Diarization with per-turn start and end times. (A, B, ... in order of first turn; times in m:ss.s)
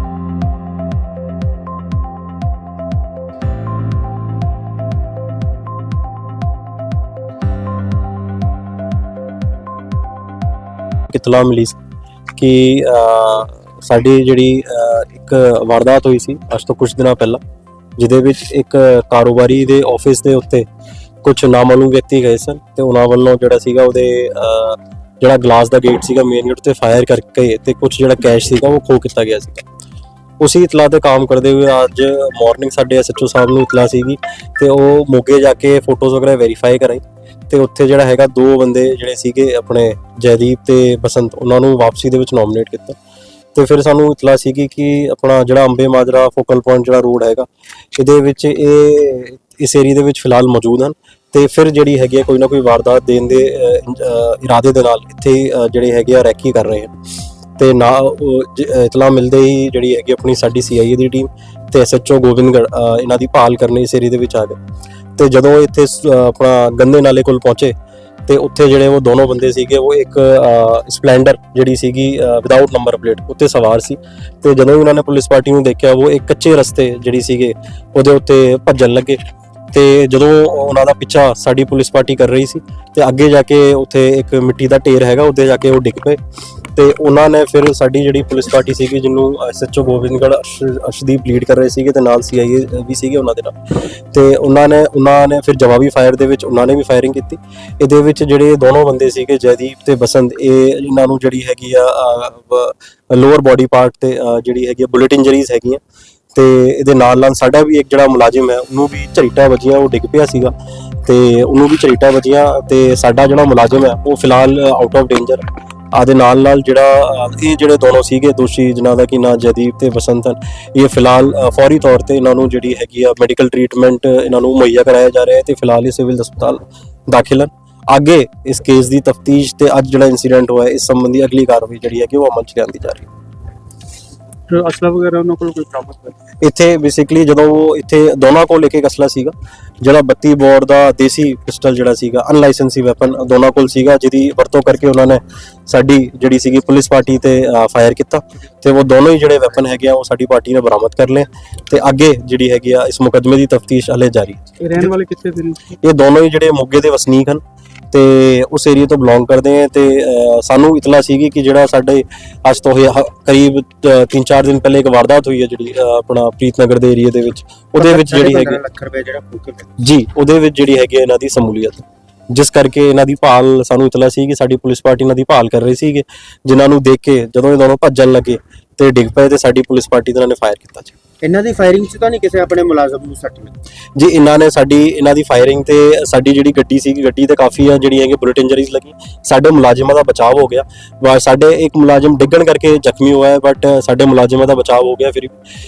0:11.1-0:11.8 A
0:12.4-0:17.4 A
0:18.0-0:20.6 A
0:21.2-0:29.6 A
0:30.4-0:43.0 A
0:43.5-0:56.9 A
0:57.6-1:04.6 A
1:05.2-1:07.7 A
1:08.3-1:19.2 A
1:19.7-1:26.2 A
1:26.7-1:45.8 A
1:46.3-1:50.5 A
1:51.0-2:13.1 A
2:14.5-2:16.2 B
2:16.4-2:34.4 A
2:34.6-2:35.8 B
2:35.8-2:48.6 A
2:47.8-2:49.7 C
2:49.8-3:00.9 A
3:01.2-3:03.5 C
3:04.0-3:15.3 A